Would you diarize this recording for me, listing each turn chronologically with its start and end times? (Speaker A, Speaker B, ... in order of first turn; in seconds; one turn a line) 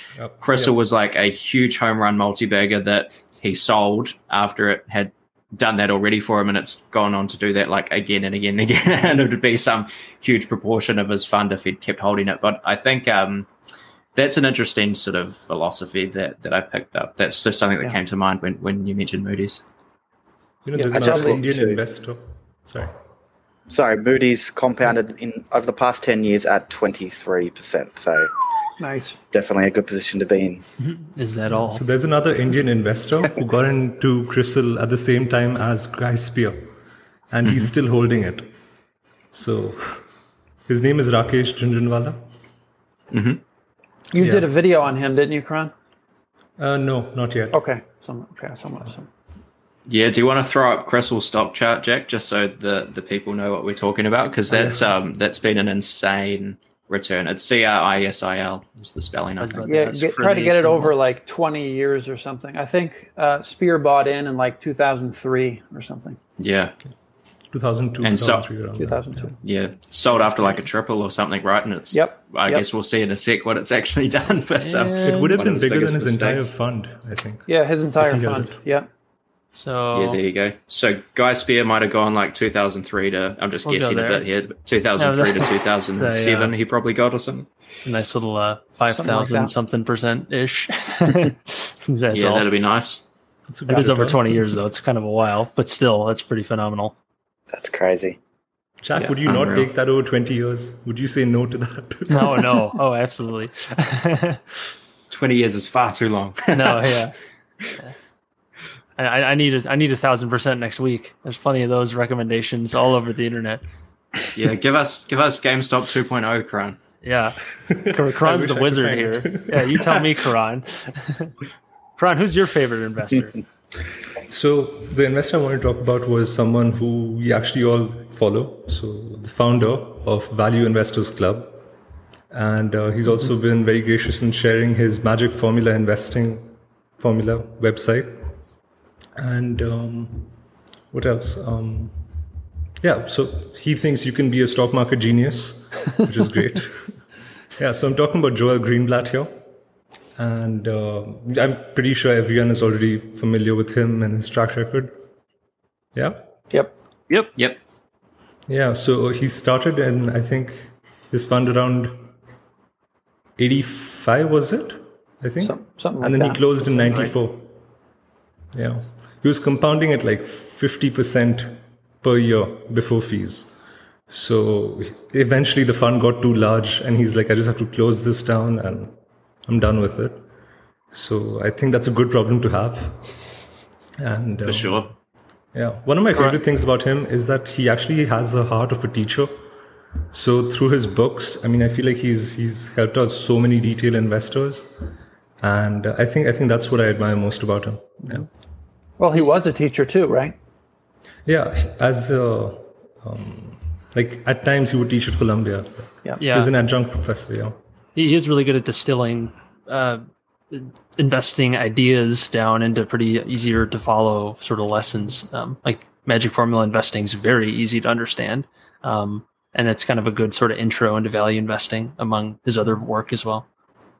Speaker A: 0.2-0.8
Speaker B: 0.4-13.5
Speaker B: 14.2-19.6
Speaker A: 20.6-22.9
Speaker C: 20.8-21.4
Speaker D: 20.9-21.8
Speaker D: 23.7-28.3
Speaker C: 28.8-29.2
Speaker D: 29.3-30.6
Speaker E: 30.8-31.9
Speaker A: 31.5-36.8
Speaker A: 37.3-38.6
Speaker B: 37.5-37.7
Speaker A: 39.3-40.1
Speaker A: 40.7-42.2
Speaker B: 43.1-43.4
Speaker C: 44.1-45.7
Speaker A: 44.2-44.5
Speaker A: 46.6-47.6
Speaker C: 47.5-49.1
Speaker B: 49.9-59.7
Speaker A: 54.5-54.9
Speaker E: 59.4-61.0
Speaker C: 59.7-66.2
Speaker B: 66.4-66.8
Speaker A: 67.5-69.3
Speaker B: 68.0-68.5
Speaker C: 68.8-69.4
Speaker B: 69.4-76.5
Speaker C: 71.9-72.7
Speaker E: 74.6-75.4
Speaker A: 75.0-78.6
Speaker C: 77.5-78.9
Speaker E: 79.5-80.2
Speaker B: 79.9-87.5
Speaker E: 83.7-84.3
Speaker E: 85.0-86.5
Speaker E: 87.8-92.5
Speaker C: 88.9-89.5
Speaker B: 92.1-93.0
Speaker A: 93.5-94.5
Speaker E: 93.7-96.9
Speaker D: 97.5-98.2
Speaker A: 98.8-102.5
Speaker B: 99.2-99.7
Speaker E: 102.1-104.4
Speaker B: 105.1-106.9
Speaker E: 106.5-107.2
Speaker E: 109.0-113.6
Speaker B: 114.3-116.8
Speaker E: 117.0-121.3
Speaker A: 117.7-120.0
Speaker E: 122.0-123.4
Speaker A: 124.3-131.7
Speaker A: 132.3-138.4
Speaker A: 139.2-140.4
Speaker A: 140.9-142.3
Speaker A: 142.8-147.0
Speaker A: 147.6-149.4
Speaker A: 150.2-154.9
Speaker A: 155.9-156.3
Speaker E: 157.1-157.3
Speaker A: 158.5-162.1
Speaker A: 163.4-167.6
Speaker C: 165.4-167.1
Speaker A: 168.5-173.5
Speaker A: 174.1-180.2
Speaker A: 180.9-183.2
Speaker A: 184.0-184.9
Speaker B: 184.4-184.9
Speaker A: 185.5-189.5
Speaker E: 186.1-186.4
Speaker A: 190.1-194.7
Speaker A: 195.4-198.3
Speaker C: 199.0-200.3
Speaker A: 201.2-207.6
Speaker E: 206.2-206.5
Speaker E: 207.9-223.4